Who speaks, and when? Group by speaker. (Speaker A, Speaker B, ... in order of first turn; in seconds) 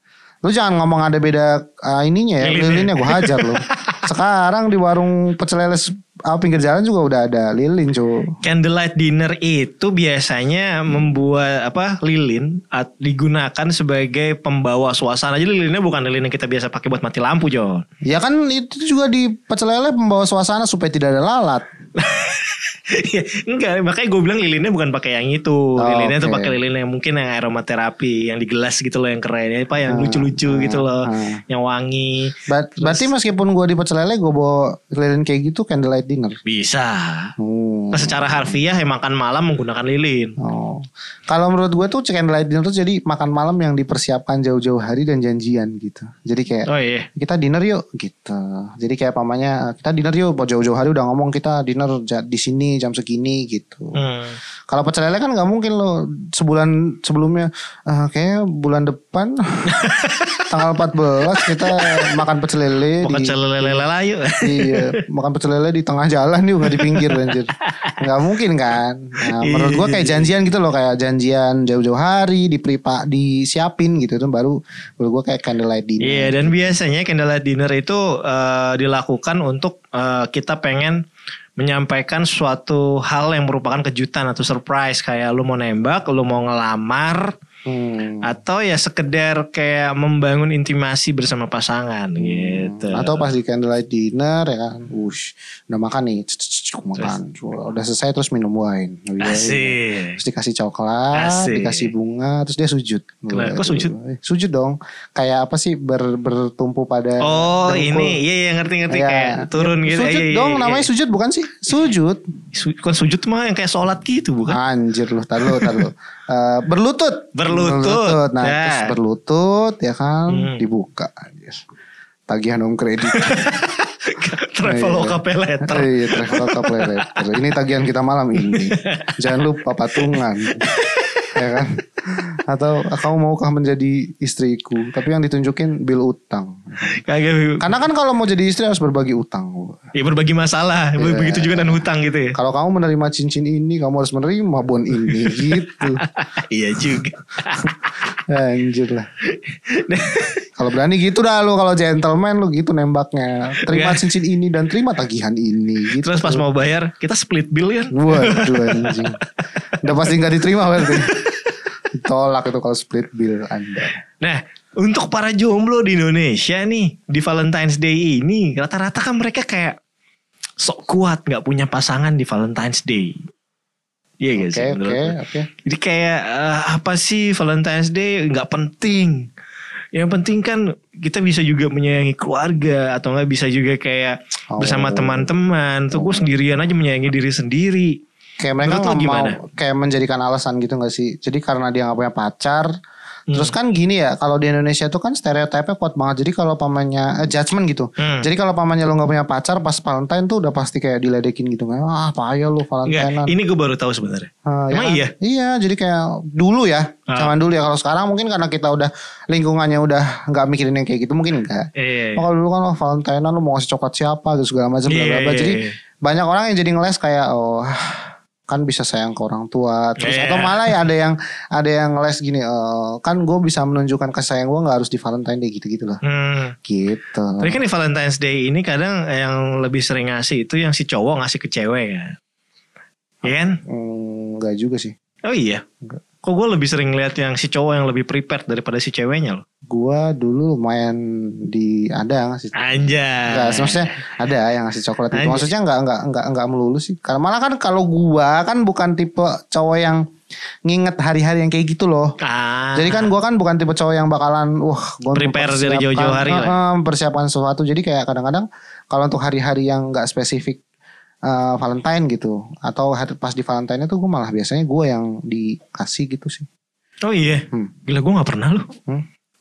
Speaker A: 0.5-8.3, 18.1-21.7, 25.8-26.6, 29.9-31.4, 32.5-36.4, 37.4-38.5, 40.4-54.0, 54.7-59.8, 60.5-63.8, 64.4-76.8, 87.7-88.3, 92.2-108.2, 108.9-112.2, 114.5-121.6, 122.3-123.5, 124.6-130.7, 131.3-136.9, 137.6-139.9, 141.0-146.0, 147.6-149.1, 150.6-156.5, 157.9-159.2, 159.8-161.2, 161.9-164.0, 174.4-175.5, 184.6-185.3, 185.9-186.3, 188.4-192.7, 193.3-203.3, 204.5-226.0, 226.7-227.6, 233.6-234.9, 239.7-250.0, 250.7-252.1, 252.8-260.6, 261.3-266.5
Speaker B: 2.4-4.1, 8.4-17.9, 22.0-33.1, 36.5-37.3, 37.9-40.4, 46.7-47.1, 54.0-54.4, 59.7-60.5, 61.3-62.2, 63.0-64.9, 66.7-67.9, 69.3-70.3, 76.0-81.0, 81.6-87.3, 88.2-93.3, 99.2-100.2, 101.2-101.9, 103.3-103.9, 107.2-110.9, 112.5-114.6, 115.5-115.9, 117.3-118.9, 120.3-120.6, 123.1-127.2, 128.4-129.2, 130.0-131.3, 136.9-137.6, 139.9-142.3, 145.0-147.8, 149.3-150.4, 153.7-154.1, 155.9-160.2, 160.8-161.5, 164.2-169.8, 170.6-173.2, 174.2-179.3, 179.9-188.0, 188.6-189.4, 198.0-198.3, 202.9-205.1, 207.1-207.3, 211.8-212.2, 214.9-215.8, 220.0-220.8, 226.0-226.5, 227.4-232.2, 233.2-233.6, 235.2-235.6, 236.2-239.4, 242.6-244.0, 245.1-245.5, 252.2-253.1, 255.1-256.6, 267.0-268.7